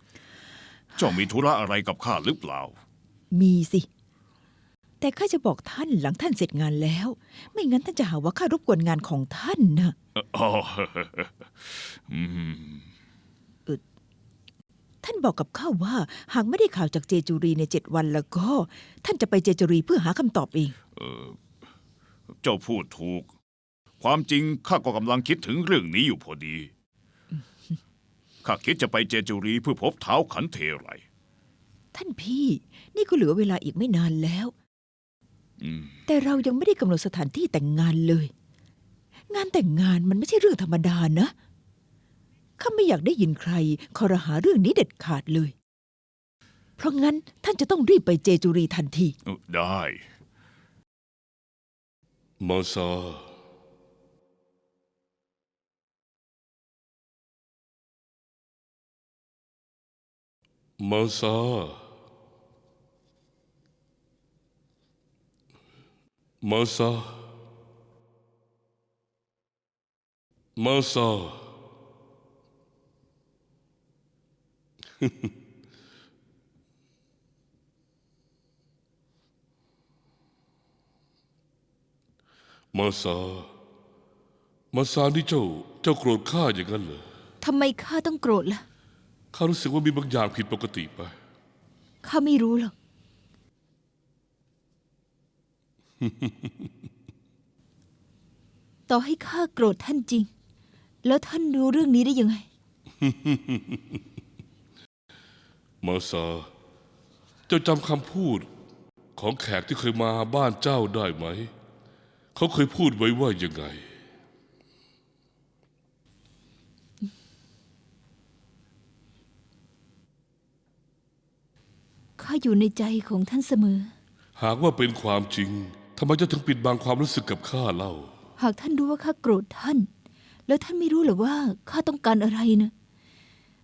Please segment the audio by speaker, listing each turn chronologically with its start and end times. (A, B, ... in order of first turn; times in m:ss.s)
0:01.0-0:02.8 A
0:03.3-0:03.9 B
0:05.0-0:09.9 B
0:10.1-0:12.9 A
0:15.0-0:20.7 B
0:21.0-0:21.4 A
0:22.4-0:23.3 A
0:24.0-0:26.7 A
0:28.4-0:31.0 A
0:31.9-0:34.5 B
0:35.6-0:36.0 A
0:36.1-0:38.3 B
0:39.3-0:41.3 B
0:42.6-0:45.5 B
0:46.8-0:49.1 B
0:49.2-0:50.0 A
0:52.4-0:53.3 C
1:00.8-1:01.8 C
1:06.4-1:07.2 C
1:10.6-1:11.5 C
1:15.0-1:15.3 C
1:22.7-1:23.5 C
1:24.7-1:27.0 C
1:27.4-1:28.6 D
1:29.3-1:31.1 C
1:32.0-1:32.7 D
1:36.0-1:36.3 C
1:38.9-1:40.3 D
1:41.0-1:42.5 D
1:43.0-1:43.8 C
1:45.8-1:46.5 C
1:47.5-1:48.4 C
1:49.1-1:51.5 C
1:52.3-1:53.8 C
2:02.2-2:03.9 D
2:04.4-2:08.1 C
2:08.4-2:09.9 D
2:10.5-2:12.7 D